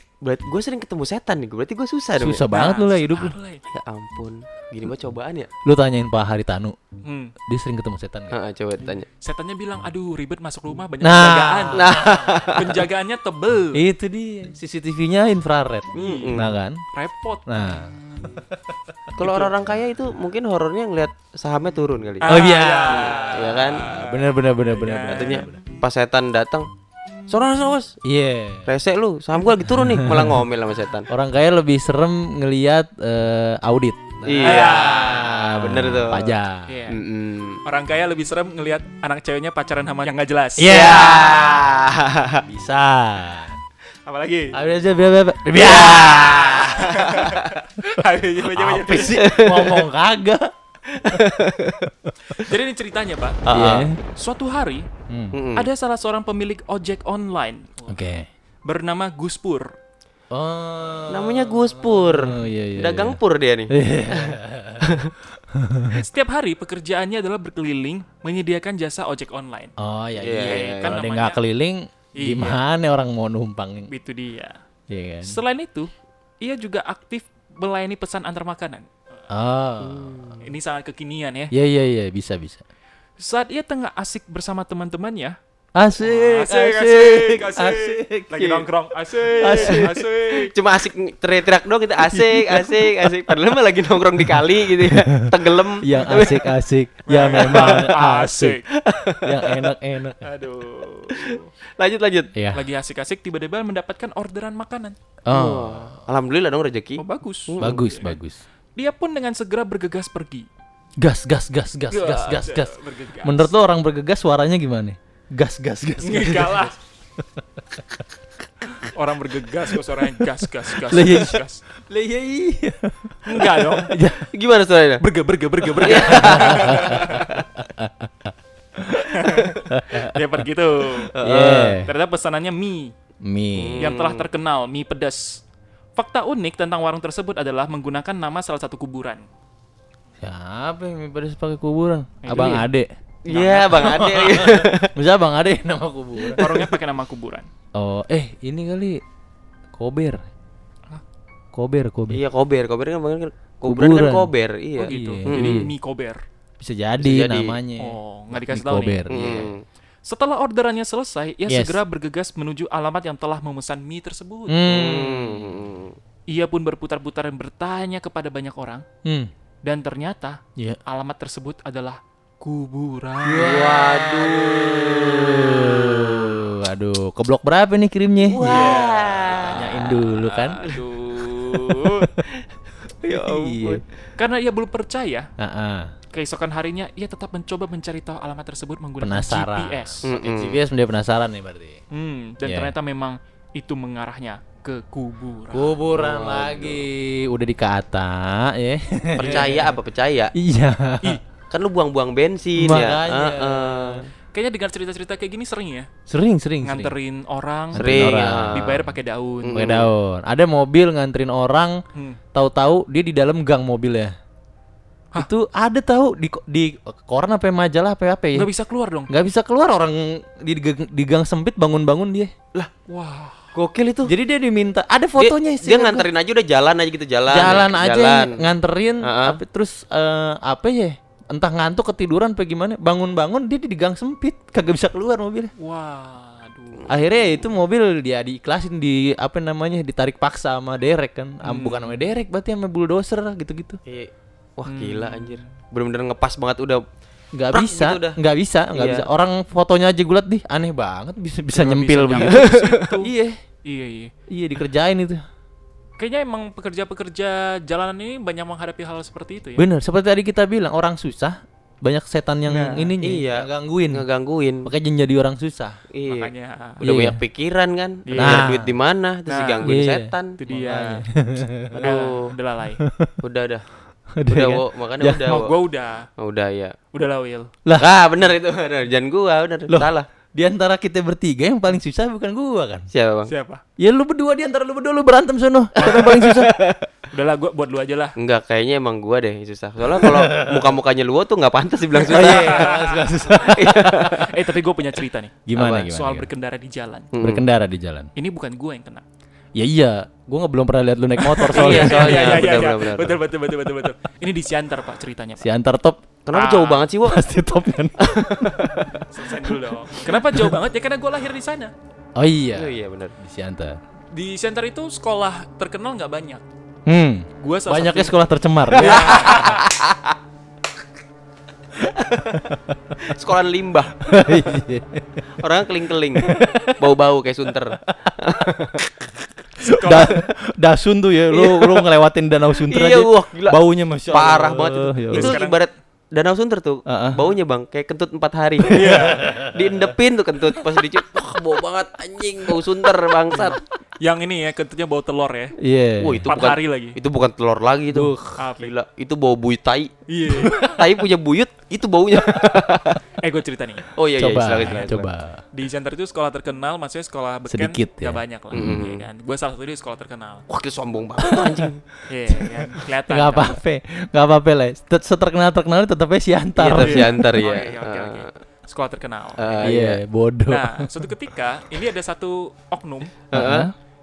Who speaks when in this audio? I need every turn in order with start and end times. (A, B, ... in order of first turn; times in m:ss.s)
0:00.2-0:02.4 A
0:02.2-0:03.4 B
0:02.5-0:03.6 C
0:03.7-0:05.5 A
0:05.6-0:06.8 B
0:07.0-0:07.3 C
0:07.5-0:08.4 B
0:08.3-0:09.1 A
0:09.2-0:11.9 C
0:11.0-0:12.5 B
0:11.7-0:12.9 A
0:12.5-0:13.8 C
0:13.8-0:16.8 B
0:15.9-0:16.4 C
0:15.9-0:16.5 A
0:16.9-0:17.8 C
0:17.5-0:19.2 B
0:19.2-0:22.3 A
0:22.2-0:25.4 C
0:22.2-0:25.6 B
0:22.9-0:23.9 A
0:25.1-0:26.7 A
0:27.3-0:28.0 A
0:28.0-0:28.7 B
0:28.7-0:31.1 A
0:29.8-0:30.4 B
0:31.1-0:36.8 B
0:34.2-0:36.4 A
0:34.4-0:35.5 C
0:36.7-0:37.0 C
0:36.9-0:37.6 A
0:37.6-0:41.0 C
0:40.6-0:41.7 B
0:40.7-0:42.4 A
0:42.5-0:43.6 B
0:44.1-0:44.6 C
0:44.5-0:47.0 B
0:45.6-0:47.5 A
0:45.7-0:49.2 C
0:48.5-0:50.5 B
0:49.0-0:49.9 A
0:50.9-0:51.9 A
0:51.9-0:52.4 B
0:52.4-0:53.4 C
0:53.5-0:54.0 B
0:53.5-0:53.9 A
0:54.1-0:54.9 C
0:55.1-0:55.4 B
0:55.3-0:55.7 A
0:55.6-0:58.0 C
0:57.9-0:58.3 B
0:58.6-0:59.7 C
1:00.3-1:03.2 B
1:01.1-1:05.1 A
1:03.7-1:06.0 B
1:05.9-1:09.7 C
1:09.8-1:13.9 B
1:10.2-1:11.0 A
1:10.4-1:11.4 C
1:12.2-1:12.6 C
1:13.9-1:14.6 C
1:14.9-1:15.4 B
1:15.2-1:15.9 C
1:16.4-1:18.9 C
1:19.3-1:20.2 B
1:19.8-1:20.5 A
1:20.4-1:21.5 C
1:21.5-1:22.6 B
1:23.2-1:25.4 C
1:25.8-1:28.3 B
1:26.0-1:30.5 C
1:28.4-1:28.7 A
1:29.4-1:30.0 B
1:29.4-1:29.9 A
1:30.5-1:36.6 A
1:32.1-1:32.7 B
1:34.9-1:38.6 B
1:37.1-1:38.6 C
1:37.2-1:37.8 A
1:38.7-1:39.7 A
1:39.2-1:40.2 B
1:40.2-1:41.5 C
1:41.1-1:42.3 A
1:42.4-1:42.7 B
1:42.5-1:45.0 C
1:45.3-1:46.0 B
1:45.3-1:47.9 A
1:47.0-1:48.2 C
1:47.6-1:48.4 B
1:48.8-1:50.5 C
1:51.0-1:56.7 B
1:51.9-1:53.5 C
1:56.0-1:56.8 C
1:58.9-2:01.6 C
2:00.9-2:04.3 B
2:03.2-2:04.0 C
2:04.3-2:05.0 A
2:05.0-2:07.4 C
2:05.8-2:07.2 A
2:05.8-2:09.1 B
2:09.1-2:11.1 C
2:09.7-2:10.1 B
2:11.2-2:11.7 A
2:11.2-2:11.9 B
2:11.7-2:12.9 C
2:13.2-2:13.9 B
2:13.6-2:14.3 A
2:13.8-2:15.4 C
2:16.0-2:19.2 C
2:20.2-2:22.9 B
2:22.2-2:22.7 C
2:23.3-2:24.9 A
2:23.3-2:24.2 C
2:23.8-2:26.5 B
2:26.4-2:27.5 C
2:26.4-2:26.7 A
2:27.8-2:29.0 B
2:29.8-2:30.2 B
2:31.5-2:32.2 B
2:32.1-2:35.7 A
2:33.6-2:34.3 B
2:34.8-2:36.2 C
2:34.9-2:35.7 B
2:36.6-2:39.5 B
2:37.0-2:37.6 A
2:37.8-2:39.1 C
2:39.1-2:39.6 A
2:40.0-2:44.6 C
2:41.5-2:41.8 B
2:44.5-2:45.3 B
2:44.7-2:46.0 A
2:46.3-2:48.8 C
2:49.0-2:49.3 B
2:49.6-2:53.7 C
2:53.2-2:58.8 B
2:53.3-2:56.4 A
2:58.2-3:00.0 A
2:58.4-3:02.0 C
2:59.4-3:00.6 B
3:01.4-3:02.4 A
3:01.8-3:02.2 B
3:03.0-3:03.8 A
3:03.1-3:03.8 B
3:04.2-3:05.3 C
3:05.4-3:05.9 B
3:06.1-3:10.4 C
3:09.0-3:11.8 B
3:10.0-3:10.6 A
3:11.9-3:15.8 C
3:12.4-3:12.7 B
3:15.5-3:19.7 B
3:15.9-3:16.9 A
3:19.2-3:20.3 A
3:20.3-3:21.2 B
3:21.5-3:24.1 A
3:22.6-3:24.0 B
3:24.3-3:25.9 C
3:26.1-3:27.0 B
3:26.6-3:29.6 C
3:27.7-3:28.8 B
3:27.7-3:28.9 A
3:29.4-3:29.9 A
3:29.5-3:31.8 B
3:32.3-3:34.1 B
3:35.2-3:38.5 B
3:38.4-3:39.1 C
3:39.1-3:42.3 B
3:42.9-3:43.5 C
3:43.6-3:44.1 A
3:44.1-3:46.1 B
3:45.2-3:48.4 A
3:47.3-3:55.5 B
3:49.0-3:49.4 A
3:55.6-3:57.0 C
3:56.9-4:03.8 B
4:01.4-4:02.0 C
4:03.9-4:06.8 A
4:04.7-4:05.5 C
4:07.3-4:13.4 B
4:07.5-4:08.2 A
4:08.8-4:09.1 A
4:11.6-4:13.1 C
4:11.8-4:12.8 A
4:13.6-4:14.1 C
4:14.3-4:15.2 B
4:16.0-4:19.7 C
4:19.6-4:24.0 B
4:22.5-4:24.7 A
4:22.6-4:22.9 C
4:24.6-4:25.8 B
4:25.9-4:30.4 A
4:26.1-4:26.8 C
4:26.8-4:27.2 B
4:28.1-4:28.6 C
4:28.2-4:28.8 B
4:29.3-4:29.7 C
4:29.6-4:32.0 B
4:30.4-4:31.1 C
4:31.7-4:32.3 A
4:31.8-4:32.8 C
4:32.8-4:33.2 B
4:33.2-4:33.7 A
4:34.2-4:35.2 B
4:34.3-4:35.6 A
4:35.2-4:36.1 C
4:36.2-4:36.8 A
4:36.9-4:37.5 C
4:37.6-4:37.9 B
4:37.8-4:40.1 A
4:39.7-4:42.9 B
4:42.9-4:43.3 A
4:43.3-4:43.6 C
4:43.8-4:46.5 B
4:45.8-4:46.8 A
4:47.1-4:48.2 C
4:48.2-4:52.7 A
4:50.0-4:50.7 B
4:52.0-4:53.0 C
4:52.1-4:54.2 B
4:53.4-4:54.2 A
4:54.1-4:57.1 C
4:55.5-4:56.3 B
4:55.6-4:55.9 A
4:57.1-4:57.5 A
4:57.2-4:58.1 B
4:58.2-4:59.0 C
4:59.6-5:02.6 B
5:01.5-5:03.2 A
5:01.5-5:05.4 C
5:05.4-5:06.1 B
5:06.3-5:07.2 A
5:06.3-5:06.9 C
5:07.0-5:08.9 B
5:08.0-5:08.9 A
5:09.1-5:11.7 C
5:12.2-5:13.8 B
5:12.5-5:13.2 A
5:14.1-5:16.4 C
5:16.9-5:19.5 B
5:17.4-5:18.2 C
5:18.7-5:20.2 A
5:18.8-5:19.7 C
5:21.8-5:22.3 A
5:23.0-5:24.1 A
5:24.0-5:25.2 B
5:25.4-5:28.9 A
5:26.2-5:26.8 B
5:29.6-5:35.4 B
5:29.6-5:30.2 C
5:31.3-5:31.9 A
5:32.6-5:43.6 A
5:35.1-5:35.6 C
5:36.9-5:37.3 B
5:38.7-5:39.7 B
5:38.7-5:39.2 C
5:43.3-5:45.6 C
5:45.6-5:46.3 B
5:46.0-5:49.9 A
5:46.3-5:47.0 C
5:47.9-5:48.4 B
5:48.4-5:48.7 C
5:50.1-5:50.7 C
5:50.5-5:50.8 B
5:50.5-5:53.0 A
5:53.2-5:53.9 C
5:54.0-5:55.1 A
5:54.2-5:55.4 B
5:55.5-6:00.5 C
5:57.5-5:58.8 B
5:58.5-5:59.1 A
6:00.5-6:01.8 A
6:01.2-6:01.7 B
6:02.1-6:03.6 C
6:03.1-6:07.2 B
6:06.6-6:08.3 A
6:06.7-6:09.7 C
6:09.4-6:10.0 A
6:09.6-6:10.9 B
6:10.5-6:13.2 C
6:13.3-6:13.7 A
6:13.3-6:13.7 B